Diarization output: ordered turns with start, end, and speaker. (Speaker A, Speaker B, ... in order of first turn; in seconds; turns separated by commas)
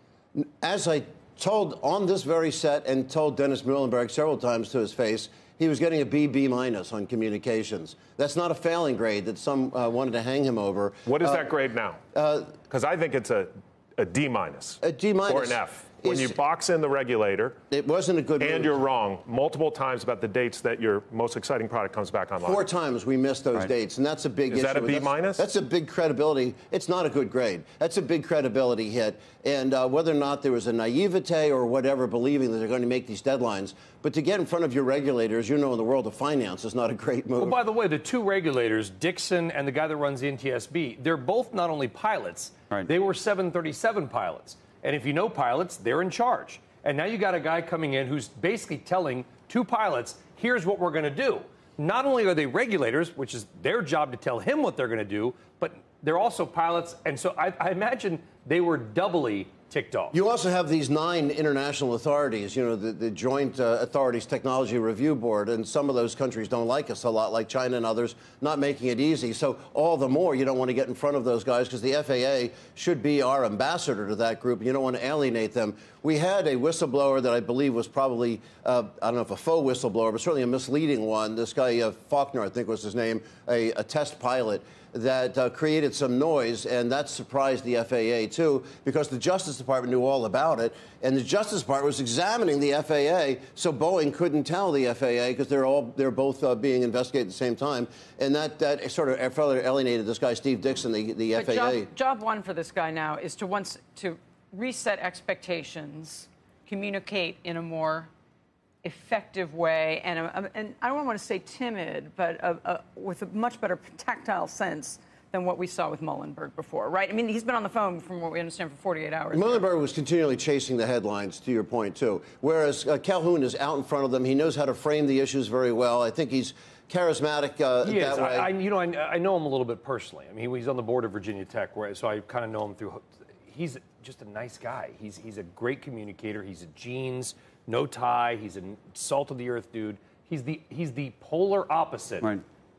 Speaker A: 0.4-11.5, Speaker B: 11.1-12.0, Speaker A: 12.1-12.6, Speaker B: 12.6-17.6, Speaker A: 14.8-16.4, Speaker A: 17.7-18.8, Speaker B: 18.4-22.6, Speaker A: 22.4-37.6, Speaker B: 24.5-25.4, Speaker C: 37.4-60.1, Speaker A: 60.1-101.9, Speaker D: 101.3-108.1, Speaker D: 108.8-119.6, Speaker A: 119.3-128.5, Speaker C: 127.8-142.4